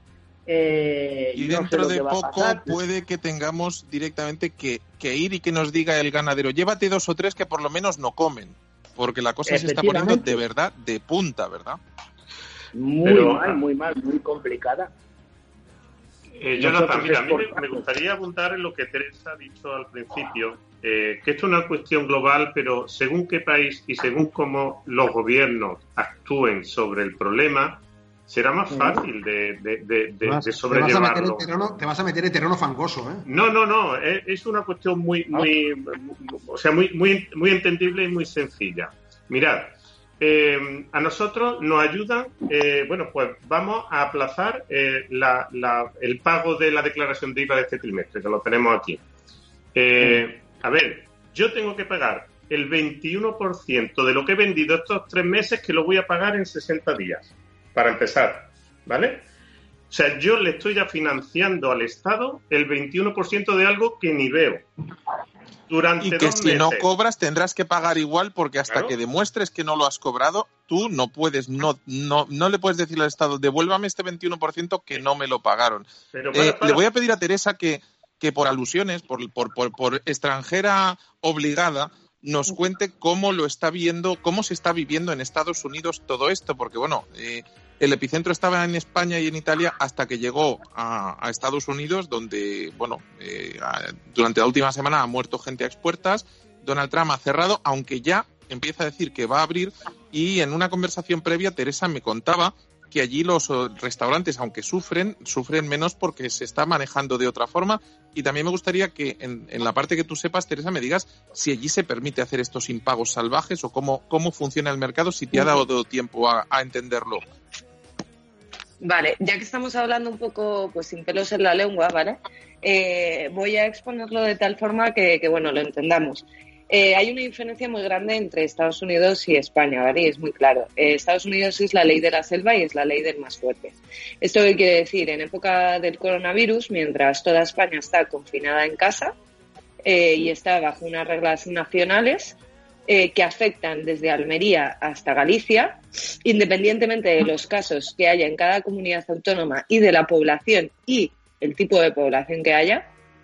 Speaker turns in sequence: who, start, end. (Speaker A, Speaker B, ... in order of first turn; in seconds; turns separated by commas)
Speaker A: 0.5-2.8, Speaker B: 1.4-11.8, Speaker A: 9.4-10.4, Speaker A: 12.7-14.9, Speaker C: 13.0-13.6, Speaker C: 16.4-31.5, Speaker A: 16.6-17.8, Speaker D: 30.2-33.2, Speaker C: 33.2-49.0, Speaker C: 49.7-59.2, Speaker C: 59.9-64.7, Speaker C: 65.7-66.9, Speaker B: 66.0-117.2, Speaker C: 68.7-68.9, Speaker C: 76.1-76.8, Speaker E: 115.3-115.6, Speaker E: 118.8-139.1, Speaker E: 139.8-142.3, Speaker E: 142.9-152.9